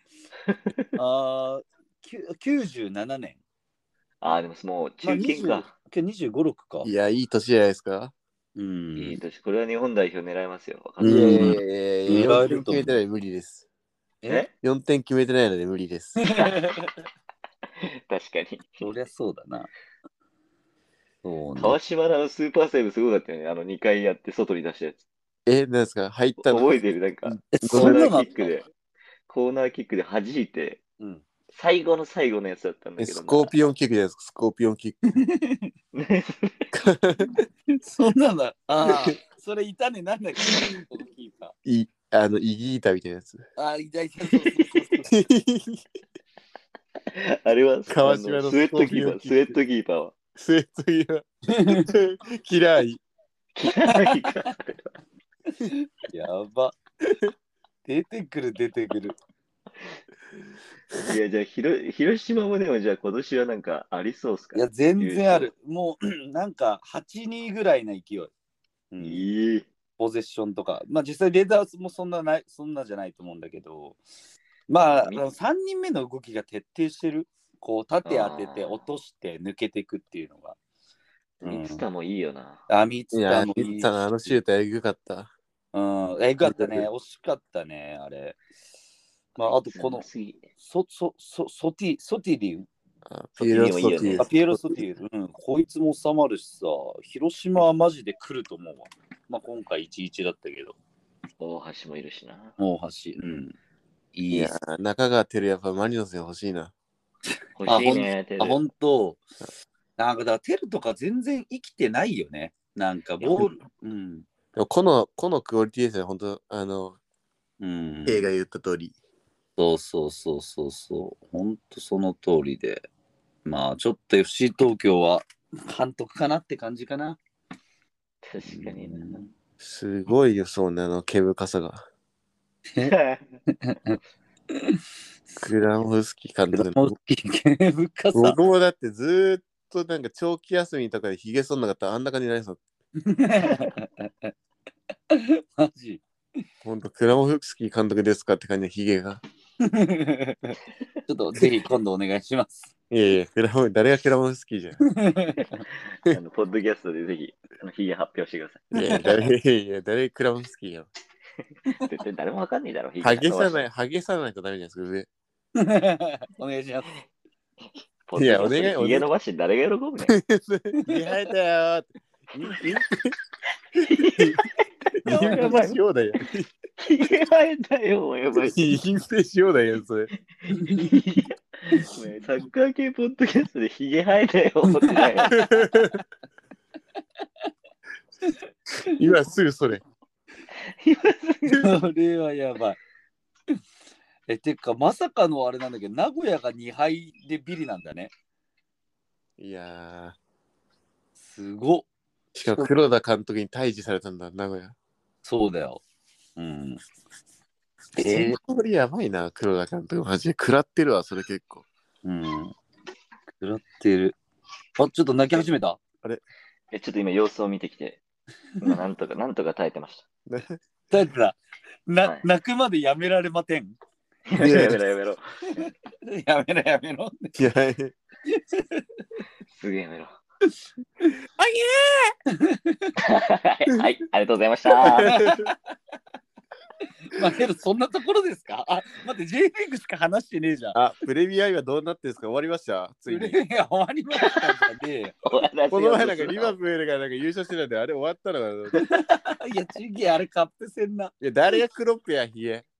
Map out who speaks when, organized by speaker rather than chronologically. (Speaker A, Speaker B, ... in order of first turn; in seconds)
Speaker A: 0.5-0.9, 4.2-5.7, 8.9-11.6, 17.8-18.8, 21.6-25.0, 26.4-28.7, 29.3-30.8, 31.5-33.5, 35.9-36.7, 47.1-50.1, 53.5-54.9, 61.0-65.5, 69.0-69.7, 74.9-75.2, 78.0-78.8, 81.4-82.6, 89.4-90.4, 93.4-94.3, 101.4-102.5, 107.6-108.6, 113.2-113.5, 128.2-129.3, 132.8-133.2, 156.1-158.7, 161.8-163.6, 168.1-170.2, 173.8-174.5, 175.0-175.8, 176.8-178.7, 180.6-185.5, 190.7-191.7, 216.7-218.0, 218.6-220.0, 224.3-225.2, 229.5-230.2, 233.0-235.2, 244.2-244.6, 245.2-246.5
Speaker B: 0.9-3.4, 5.0-6.9, 8.6-9.2, 11.0-13.0, 16.2-16.9, 18.8-19.7, 21.2-21.8, 27.5-28.3, 35.1-35.7, 37.7-41.5, 43.6-45.2, 51.5-51.9, 53.8-54.3, 55.6-56.8, 57.8-59.2, 64.5-68.3, 68.9-69.2, 70.0-74.0, 74.7-80.6, 81.4-81.8, 82.7-84.4, 85.7-88.4, 89.3-90.0, 90.6-92.7, 94.2-100.8, 102.6-103.5, 104.1-104.5, 107.7-109.2, 110.0-114.2, 117.6-118.3, 119.6-122.9, 123.4-127.2, 128.4-129.3, 133.5-134.0, 134.5-135.5, 136.5-138.4, 143.0-144.3, 145.1-146.0, 149.6-152.7, 154.8-155.6, 158.8-159.2, 165.6-166.9, 170.8-171.1, 172.3-172.7, 175.0-175.5, 180.5-181.0, 184.8-185.8, 191.6-192.8, 194.3-198.1, 201.2-201.8, 202.4-202.7, 205.2-205.8, 206.3-206.8, 207.9-208.4, 212.0-212.5, 213.4-214.2, 214.8-215.8, 220.9-223.8, 225.6-227.3, 228.3-228.8, 232.2-232.9, 234.9-235.5, 237.1-240.8, 243.1-245.2, 248.8-251.1
Speaker C: 6.8-8.1, 11.0-13.6, 14.6-16.2, 25.4-28.0, 33.0-35.0, 36.7-37.4, 38.8-39.1, 41.6-43.4, 45.1-45.8, 47.9-49.5, 50.4-53.0, 83.1-85.3, 86.4-86.8, 93.0-94.8, 104.3-106.7, 114.5-117.0, 118.0-118.9, 129.6-131.8, 135.4-136.9, 138.1-142.6, 146.6-149.2, 152.9-154.8, 158.7-160.9, 163.0-165.1, 168.2-169.1, 170.1-171.9, 172.5-173.2, 173.8-174.4, 175.0-176.5, 178.3-180.1, 185.3-186.0, 188.8-189.8, 199.4-200.2, 202.3-204.7, 208.0-211.6, 220.3-220.6, 224.3-224.8, 227.3-227.9, 234.8-235.5, 240.7-243.4, 245.7-248.8, 251.2-252.7